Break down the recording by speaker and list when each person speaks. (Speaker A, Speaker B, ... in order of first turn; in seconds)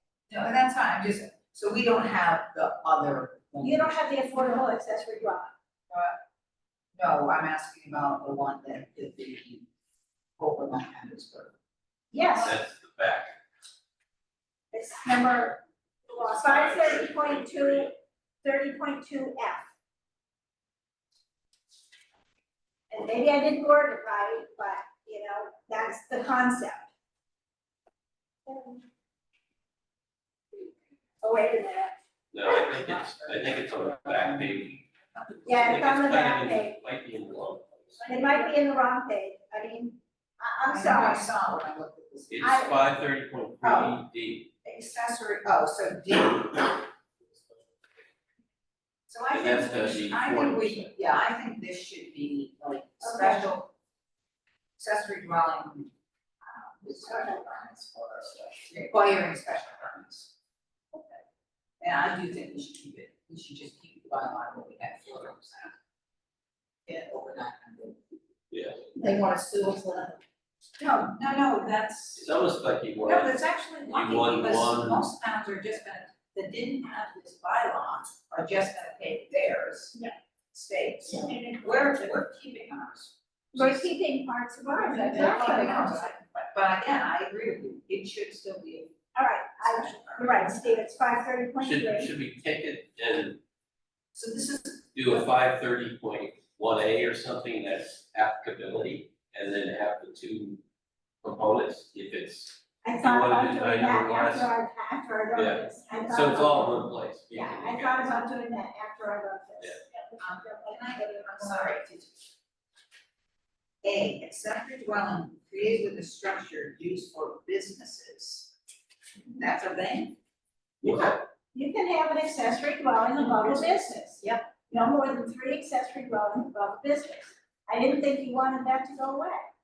Speaker A: 0.3-4.1, 5.9-6.2, 7.0-9.7, 10.4-11.5, 32.5-35.5, 40.7-42.9, 43.6-44.0, 44.6-46.9, 49.1-53.7, 54.8-55.9, 56.4-60.3, 61.8-65.8, 66.9-68.0, 70.8-72.3, 73.0-80.0, 80.5-83.9, 84.8-89.0, 89.6-90.9, 94.1-95.0, 110.2-112.3, 113.8-118.5, 119.3-120.2
Speaker B: 3.6-5.5, 12.1-12.6, 14.7-17.9, 18.4-19.7, 22.9-26.9, 28.5-28.8, 31.2-31.9, 35.5-36.8, 38.1-41.3, 42.4-42.8, 53.0-53.5, 57.1-57.4, 83.5-86.0, 89.2-92.1, 102.8-111.8, 121.5-129.4
Speaker C: 12.4-13.4, 16.1-17.9, 32.3-34.9, 35.5-38.1, 42.3-44.5, 49.3-50.9, 68.5-68.9, 72.2-75.1, 91.6-93.4, 94.9-100.6, 101.2-104.5, 105.3-108.1, 120.8-121.2
Speaker D: 69.0-70.2, 85.1-85.6, 124.2-124.5